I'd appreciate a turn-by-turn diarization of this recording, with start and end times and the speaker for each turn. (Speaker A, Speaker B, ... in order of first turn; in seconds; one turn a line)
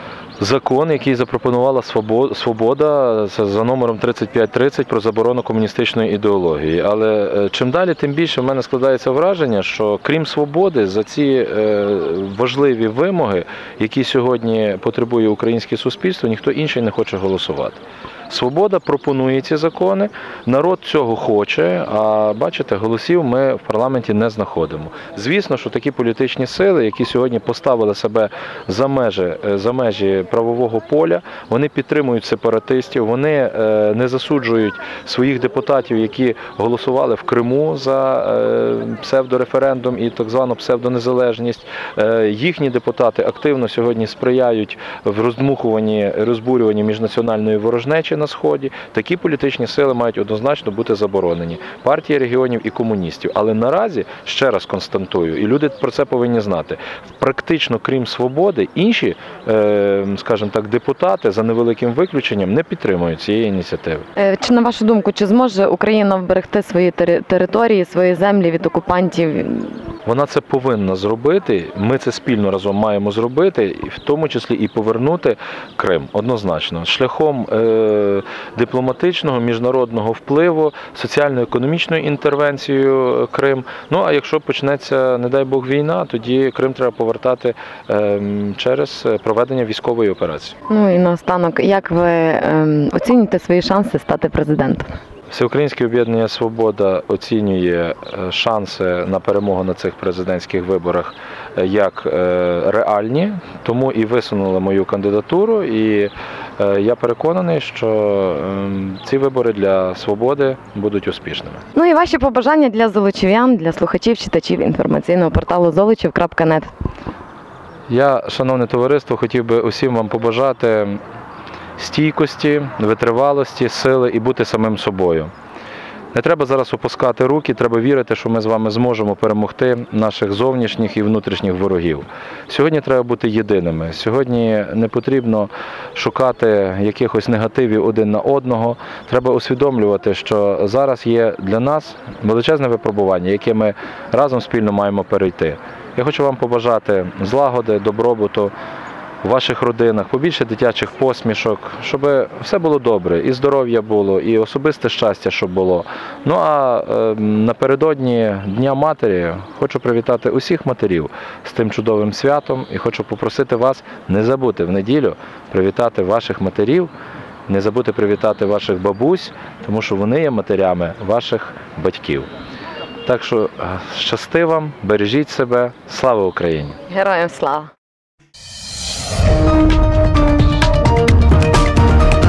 Speaker A: 0.4-64.0
Speaker B: 64.2-69.8
Speaker A: 70.0-90.5
Speaker B: 90.7-94.9
Speaker A: 95.3-111.6
Speaker B: 111.8-116.7
Speaker A: 117.9-121.0
Speaker A: 121.8-125.3
Speaker A: 126.1-148.5
Speaker A: 149.2-166.9
Speaker A: 167.5-172.3
Speaker A: 173.1-176.8
Speaker B: 176.9-177.7